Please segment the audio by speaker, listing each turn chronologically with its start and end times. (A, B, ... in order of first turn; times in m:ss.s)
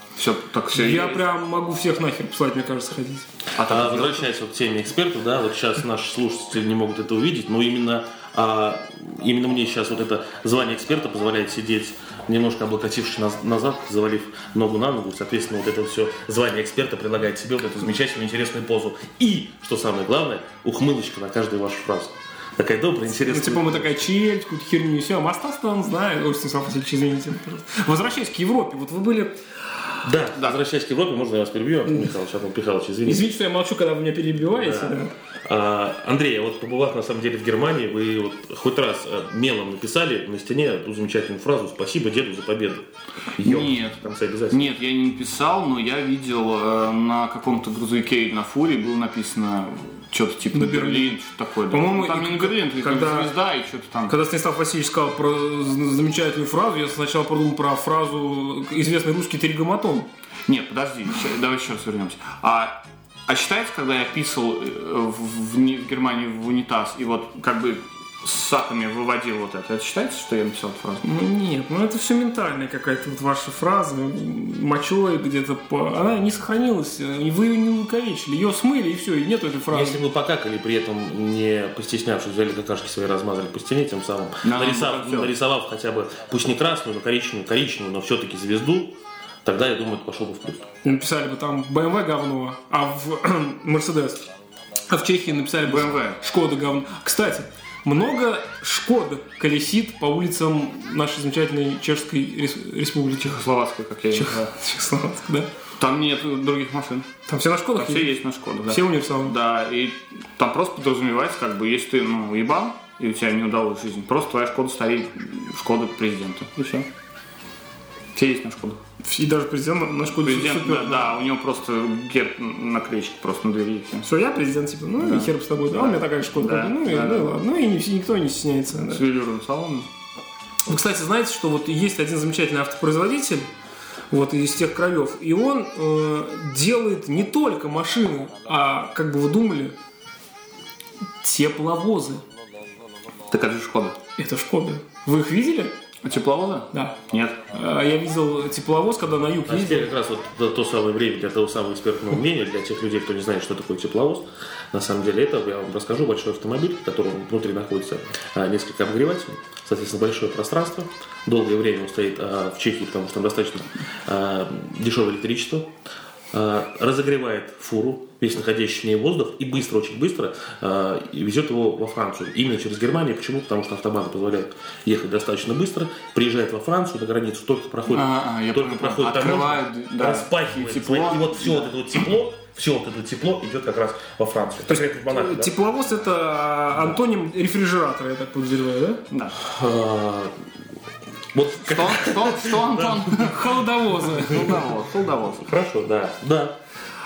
0:00.2-0:01.2 A
0:00.7-0:03.3 B
0:03.6-0:04.3 A
0:03.6-0:24.1 C
0:23.2-0:29.4 B
0:30.0-0:33.3 C
0:33.1-0:35.1 B
0:34.6-0:42.9 C
0:43.4-0:44.6 C
0:43.4-0:54.2 A
0:50.5-0:51.2 B
0:51.7-0:53.3 B
0:54.1-1:00.1 B
1:00.5-1:02.8 A
1:03.3-1:11.0 A
1:11.0-1:20.0 B
1:19.7-1:30.6 C
1:24.4-1:25.3 A
1:30.8-1:34.2 B
1:34.9-1:43.4 B
1:35.6-1:36.2 A
1:43.2-1:44.5 A
1:44.1-1:45.5 B
1:45.8-1:47.1 A
1:47.3-1:49.4 B
1:47.7-1:56.9 A
1:58.1-1:58.8 A
1:59.0-2:01.1 B
2:00.2-2:04.1 A
2:04.0-2:09.0 B
2:05.0-2:07.4 A
2:08.9-2:09.9 A
2:10.7-2:13.5 B
2:14.1-2:19.8 B
2:21.2-2:22.2 B
2:23.3-2:24.0 A
2:24.2-2:25.8 B
2:26.0-2:27.4 A
2:27.5-2:29.9 B
2:29.5-2:45.7 C
2:46.3-3:05.6 C
2:57.9-3:01.7 A
3:04.7-3:09.0 B
3:09.1-3:09.4 A
3:09.4-3:10.3 C
3:11.3-3:13.1 C
3:11.7-3:13.4 A
3:13.1-3:14.6 B
3:14.2-3:15.5 A
3:15.4-3:16.6 C